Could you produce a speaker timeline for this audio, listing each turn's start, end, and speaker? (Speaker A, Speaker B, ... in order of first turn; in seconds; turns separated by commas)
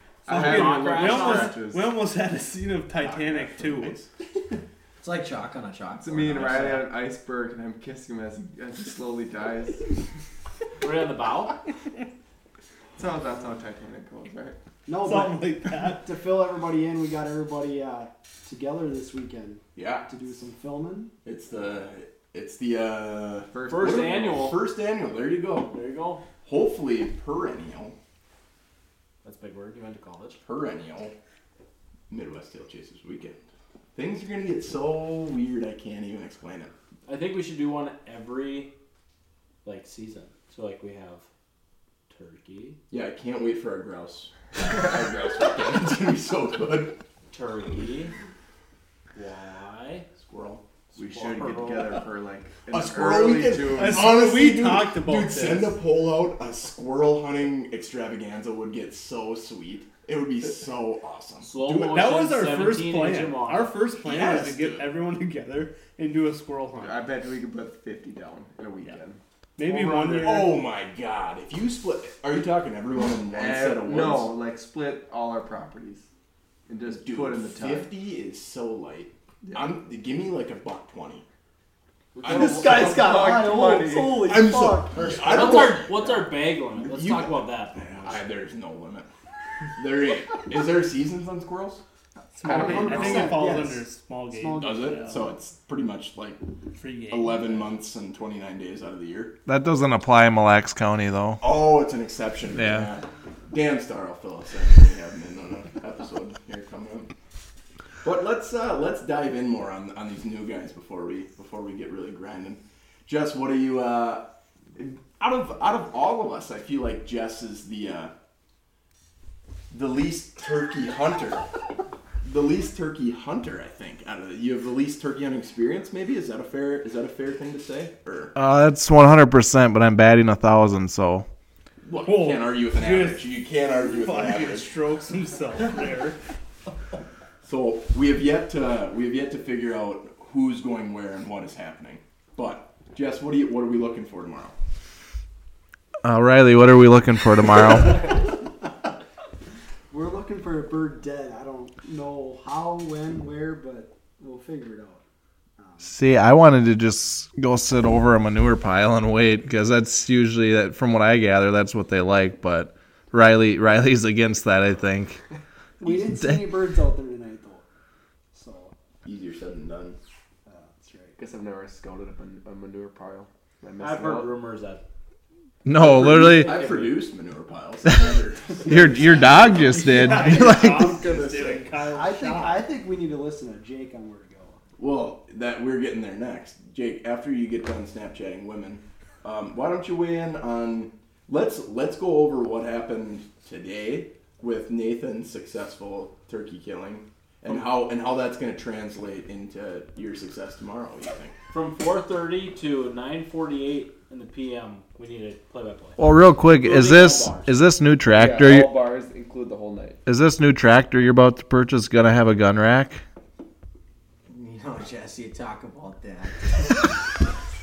Speaker A: 0.2-1.9, Speaker B: 0.2-4.0, Speaker C: 0.3-1.6, Speaker D: 3.0-4.1, Speaker E: 5.0-6.8, Speaker A: 5.9-9.8, Speaker C: 10.8-11.6, Speaker A: 12.9-14.6, Speaker F: 14.8-21.1, Speaker B: 15.0-16.1, Speaker D: 19.7-20.1, Speaker D: 21.2-25.7, Speaker A: 23.5-24.3, Speaker C: 23.7-24.6, Speaker C: 25.7-26.2, Speaker D: 26.4-27.9, Speaker C: 29.2-30.4, Speaker D: 30.4-31.1, Speaker D: 32.1-33.4, Speaker D: 33.9-36.7, Speaker C: 37.0-38.7, Speaker C: 39.6-41.2, Speaker C: 42.1-42.8, Speaker D: 42.9-47.0, Speaker C: 47.3-48.1, Speaker C: 49.1-50.0, Speaker D: 50.1-50.6, Speaker C: 50.9-52.1, Speaker A: 50.9-54.0, Speaker D: 52.7-62.0, Speaker B: 53.7-55.8, Speaker C: 61.4-63.7, Speaker B: 61.7-67.1, Speaker D: 64.0-64.9, Speaker A: 66.8-70.1, Speaker B: 69.6-70.6, Speaker D: 70.0-74.3, Speaker A: 73.2-76.0, Speaker A: 76.7-77.9, Speaker D: 76.8-81.2, Speaker C: 82.1-83.0, Speaker D: 82.2-83.4, Speaker A: 82.3-84.3, Speaker F: 82.3-85.1, Speaker D: 84.1-86.0, Speaker C: 85.3-88.3, Speaker D: 86.7-89.1, Speaker D: 89.8-91.8, Speaker B: 92.3-95.2, Speaker A: 92.4-93.5, Speaker F: 92.4-95.3, Speaker D: 92.7-93.0, Speaker D: 94.6-96.4, Speaker B: 96.8-97.8, Speaker D: 97.1-99.3, Speaker G: 99.5-101.4, Speaker D: 101.4-107.1, Speaker G: 102.5-102.9, Speaker D: 108.0-118.1, Speaker D: 119.7-121.5, Speaker D: 122.2-128.3, Speaker G: 128.3-131.2, Speaker D: 131.8-134.7, Speaker B: 132.0-136.2, Speaker D: 137.4-144.5, Speaker G: 146.0-148.2, Speaker F: 149.9-155.0, Speaker F: 155.6-155.9, Speaker G: 155.8-165.2, Speaker F: 165.8-167.6, Speaker G: 165.8-166.6, Speaker F: 168.3-168.7, Speaker D: 169.0-170.0, Speaker F: 170.4-171.2, Speaker A: 171.2-174.3, Speaker C: 173.8-174.8, Speaker G: 175.6-176.6, Speaker D: 175.8-181.7, Speaker C: 175.8-177.1, Speaker G: 178.6-181.0, Speaker B: 179.8-182.6, Speaker F: 180.1-180.4, Speaker F: 181.9-184.6, Speaker D: 184.8-201.3, Speaker C: 201.5-206.0, Speaker G: 206.0-208.8, Speaker C: 206.5-207.6, Speaker A: 208.1-210.0, Speaker G: 210.1-213.0, Speaker E: 214.3-216.8